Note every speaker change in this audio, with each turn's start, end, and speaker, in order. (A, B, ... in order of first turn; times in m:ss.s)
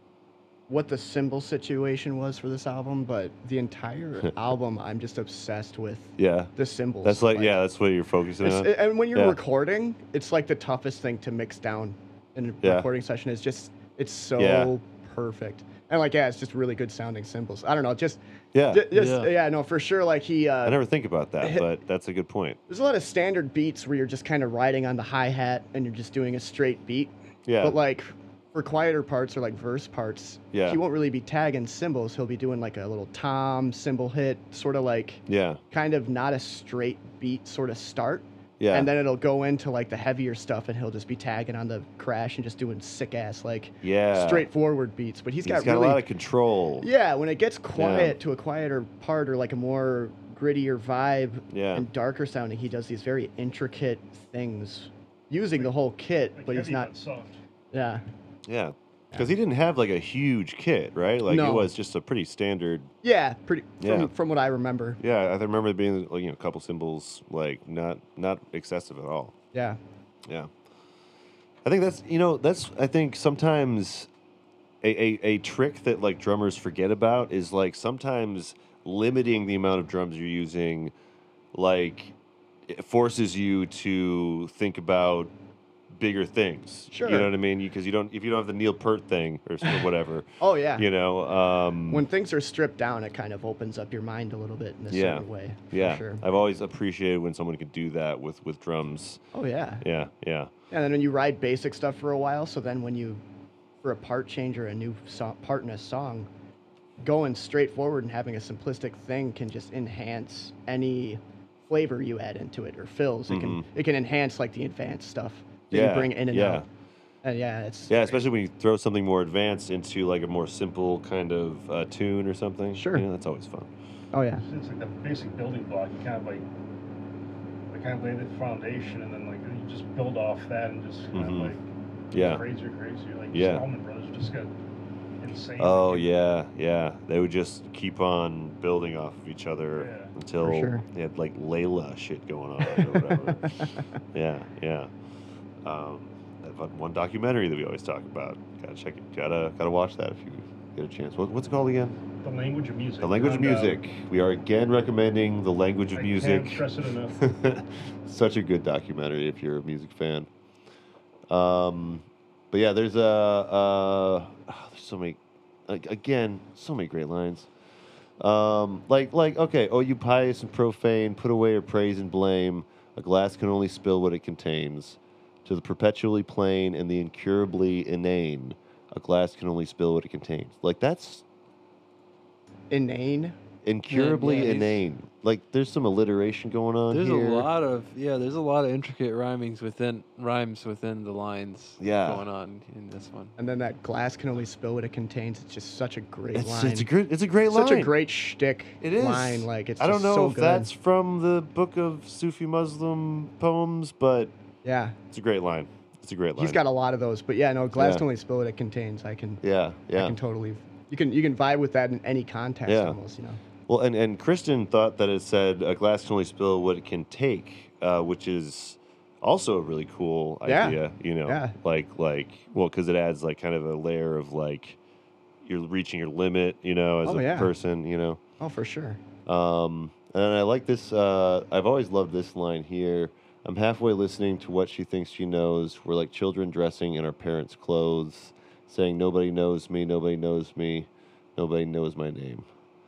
0:00.7-0:07.6 A
0:06.2-0:06.5 B
0:07.0-0:09.4 B
0:08.4-0:20.8 A
0:12.6-0:12.9 B
0:14.4-0:14.7 B
0:18.5-0:18.8 B
0:18.9-0:19.3 C
0:20.6-0:22.6 B
0:22.7-0:46.0 A
0:27.5-0:27.8 B
0:30.5-0:30.8 B
0:35.3-0:35.6 B
0:38.6-0:38.9 B
0:43.8-0:44.5 B
0:45.4-0:46.9 B
0:46.8-0:56.9 A
0:47.8-0:48.2 B
0:51.5-0:51.9 B
0:56.4-0:57.4 D
0:57.7-0:58.0 A
0:58.5-1:02.9 B
1:01.3-1:01.7 A
1:03.0-1:05.0 A
1:03.8-1:04.1 B
1:05.0-1:09.3 B
1:09.5-1:09.8 A
1:10.3-1:10.5 B
1:11.6-1:14.1 B
1:14.8-1:20.9 B
1:21.5-1:22.2 B
1:22.7-1:25.3 B
1:25.9-1:32.1 B
1:26.9-1:27.3 A
1:30.4-1:30.9 A
1:31.9-1:36.2 A
1:34.9-1:39.2 B
1:39.3-1:39.8 A
1:39.8-1:40.5 B
1:40.7-1:43.2 A
1:43.8-1:46.3 A
1:47.0-1:56.6 A
1:53.3-1:53.6 B
1:55.7-1:56.7 B
1:57.2-1:58.2 A
1:57.9-2:03.7 B
2:02.7-2:03.1 A
2:04.1-2:04.4 A
2:04.5-2:06.4 D
2:07.7-2:14.5 D
2:11.1-2:11.6 B
2:12.1-2:12.4 B
2:13.3-2:13.6 B
2:15.2-2:16.1 D
2:15.6-2:24.9 B
2:19.8-2:20.1 D
2:20.4-2:20.8 A
2:22.8-2:23.9 A
2:25.6-2:32.0 B
2:32.2-2:33.8 D
2:33.0-2:36.6 B
2:36.0-2:37.2 D
2:37.2-2:40.3 B
2:41.3-2:47.5 B
2:48.2-3:01.2 B
3:02.7-3:03.4 A
3:03.6-3:07.5 B
3:03.9-3:04.8 C
3:06.9-3:13.3 C
3:11.8-3:12.2 B
3:13.4-3:16.9 A
3:16.3-3:17.9 B
3:17.5-3:20.7 A
3:18.8-3:24.3 B
3:24.6-3:25.0 A
3:25.1-3:26.6 B
3:26.4-3:29.4 A
3:27.8-3:28.0 B
3:29.4-3:30.2 B
3:30.0-3:33.4 A
3:32.7-3:33.0 B
3:33.7-3:44.8 B
3:40.5-3:41.5 A
3:45.4-3:48.2 B
3:47.0-3:47.5 A
3:48.4-3:49.0 A
3:49.3-4:02.5 B